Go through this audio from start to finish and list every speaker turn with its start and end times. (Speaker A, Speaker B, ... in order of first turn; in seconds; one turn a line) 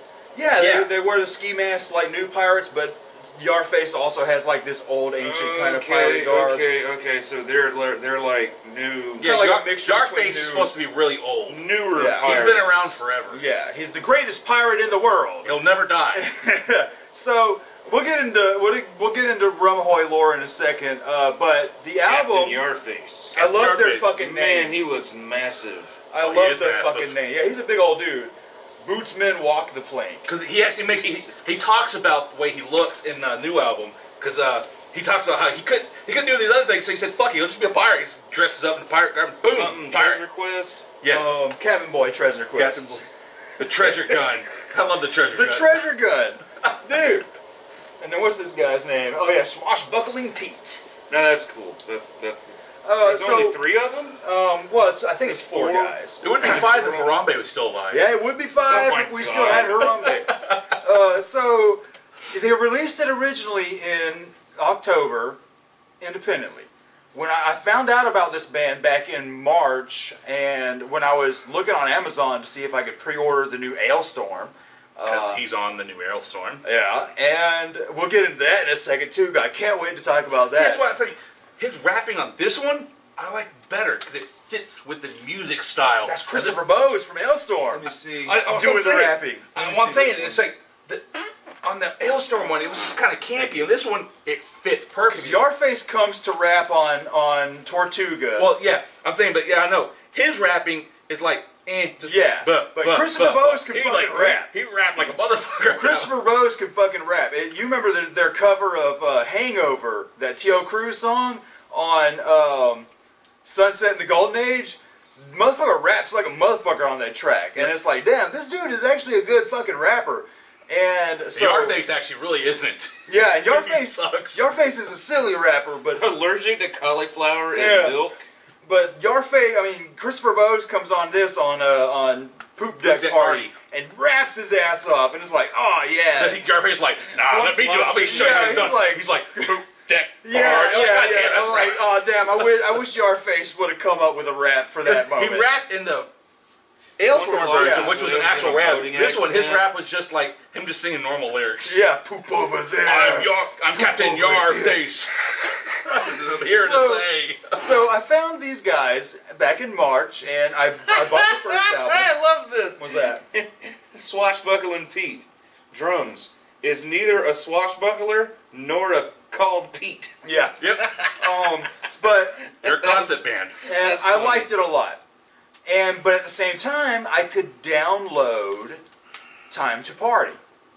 Speaker A: 0.3-6.6
Speaker B: 0.6-0.9
Speaker C: 5.2-9.3
Speaker B: 9.2-13.4
Speaker A: 9.2-10.7
Speaker C: 11.5-13.0
Speaker A: 11.9-12.5
Speaker A: 13.3-15.6
Speaker B: 15.4-16.2
Speaker A: 16.1-22.7
Speaker C: 22.0-23.4
Speaker A: 23.3-24.9
Speaker B: 23.4-24.1
Speaker C: 24.0-25.9
Speaker A: 26.1-30.2
Speaker B: 26.2-27.1
Speaker B: 30.2-40.2
Speaker C: 39.5-40.9
Speaker B: 41.0-41.4
Speaker A: 41.0-43.0
Speaker B: 42.5-43.0
Speaker B: 43.6-45.8
Speaker A: 43.8-44.2
Speaker A: 45.3-47.3
Speaker A: 48.0-50.8
Speaker C: 51.1-54.2
Speaker A: 52.8-53.6
Speaker A: 54.2-56.6
Speaker C: 55.2-57.1
Speaker B: 56.2-58.1
Speaker A: 57.9-65.4
Speaker B: 58.6-60.8
Speaker A: 66.0-75.4
Speaker B: 75.0-76.6
Speaker A: 76.6-80.8
Speaker B: 80.5-86.6
Speaker A: 86.0-90.4
Speaker C: 87.7-88.5
Speaker B: 88.2-91.1
Speaker B: 91.6-95.4
Speaker A: 95.0-98.5
Speaker B: 98.3-106.1
Speaker A: 102.0-104.5
Speaker A: 105.7-112.9
Speaker A: 113.4-121.8
Speaker B: 121.3-124.5
Speaker A: 123.1-126.1
Speaker C: 125.9-128.2
Speaker A: 127.5-128.0
Speaker A: 128.6-136.4
Speaker B: 132.8-133.5
Speaker B: 136.2-141.8
Speaker C: 137.2-138.7
Speaker A: 138.0-139.5
Speaker A: 140.2-145.5
Speaker B: 144.8-146.1
Speaker B: 147.0-151.8
Speaker C: 147.0-149.6
Speaker A: 147.5-148.0
Speaker A: 148.9-149.2
Speaker A: 151.6-154.8
Speaker B: 152.8-157.6
Speaker A: 155.9-162.2
Speaker C: 160.9-170.1
Speaker A: 162.8-163.2
Speaker A: 170.2-173.0
Speaker B: 170.6-171.0
Speaker B: 172.6-174.3
Speaker C: 172.6-173.1
Speaker A: 173.6-175.0
Speaker C: 173.8-174.5
Speaker A: 175.7-178.8
Speaker A: 179.5-180.4